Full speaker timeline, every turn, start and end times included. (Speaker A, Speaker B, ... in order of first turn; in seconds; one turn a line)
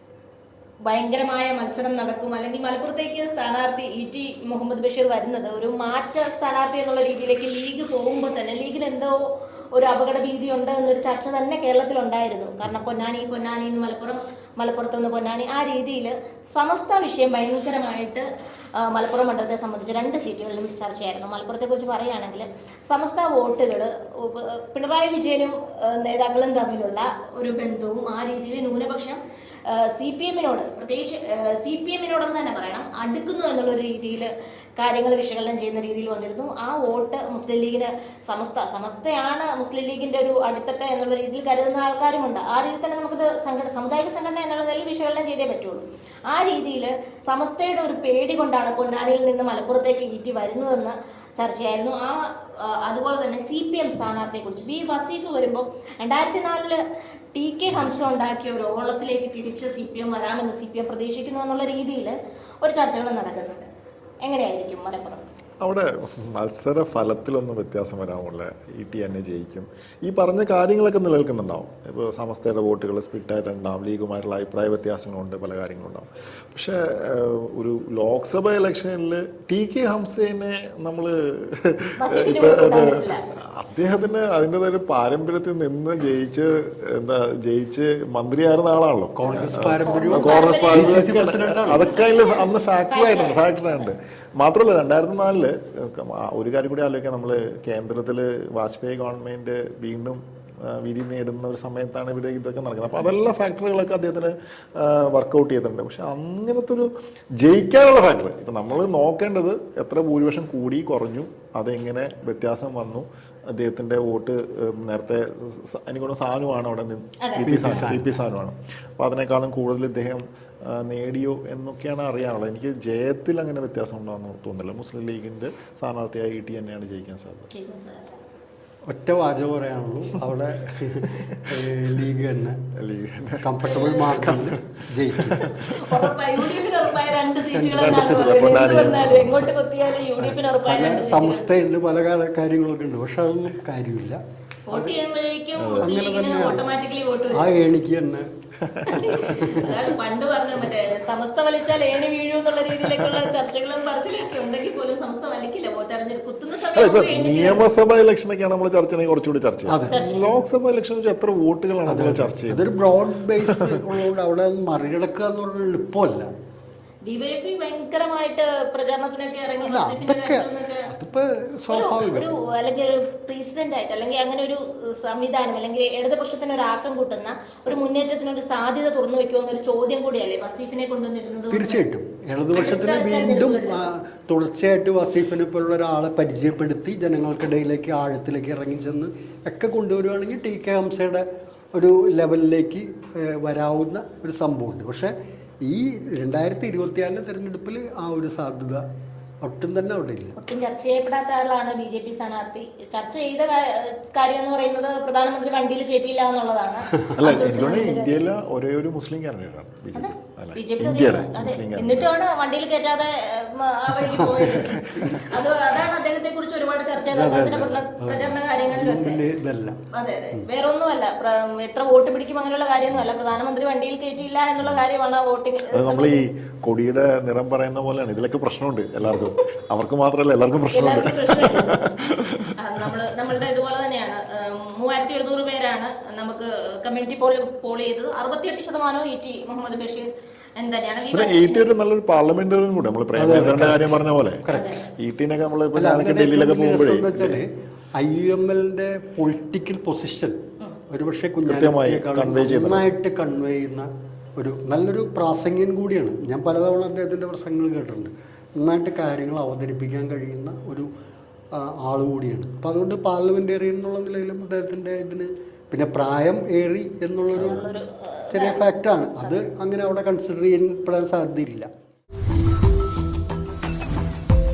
Speaker A: 0.8-9.2
Speaker A: 9.8-18.2
Speaker A: 18.8-56.8
Speaker A: 57.3-63.7
Speaker A: 64.2-65.3
Speaker B: 65.6-83.0
Speaker A: 82.0-83.3
Speaker B: 83.5-127.5
Speaker C: 89.2-91.9
Speaker A: 89.8-91.2
Speaker A: 91.7-93.9
Speaker A: 117.2-117.6
Speaker C: 117.4-118.1
Speaker A: 127.5-128.2
Speaker C: 128.9-132.6
Speaker B: 131.1-131.4
Speaker B: 132.8-133.5
Speaker C: 133.4-135.5
Speaker A: 133.7-134.1
Speaker B: 134.1-136.1
Speaker A: 135.6-141.6
Speaker C: 137.5-138.9
Speaker B: 137.8-139.5
Speaker C: 140.2-145.0
Speaker A: 144.7-147.6
Speaker B: 145.6-145.9
Speaker C: 145.8-146.7
Speaker C: 147.3-148.3
Speaker B: 148.7-149.1
Speaker A: 148.9-157.7
Speaker C: 149.3-149.9
Speaker B: 156.7-162.6
Speaker C: 159.7-160.0
Speaker A: 159.9-160.4
Speaker C: 161.9-166.3
Speaker B: 163.4-163.8
Speaker A: 167.1-170.9
Speaker C: 169.6-172.3
Speaker A: 171.7-181.8
Speaker C: 181.5-195.1
Speaker A: 182.5-183.9
Speaker C: 195.6-198.8
Speaker C: 199.4-200.3
Speaker A: 200.4-208.2
Speaker B: 207.2-212.1
Speaker A: 209.9-219.2
Speaker C: 214.1-215.2
Speaker C: 217.1-219.8
Speaker A: 219.9-226.2
Speaker B: 225.7-232.5
Speaker A: 230.7-231.9
Speaker A: 232.6-241.7
Speaker B: 241.1-247.4
Speaker C: 243.2-244.8
Speaker A: 244.5-244.9
Speaker C: 245.8-250.4
Speaker C: 250.9-260.9
Speaker B: 251.4-252.9
Speaker C: 261.6-267.7
Speaker A: 267.4-269.4
Speaker C: 268.3-271.7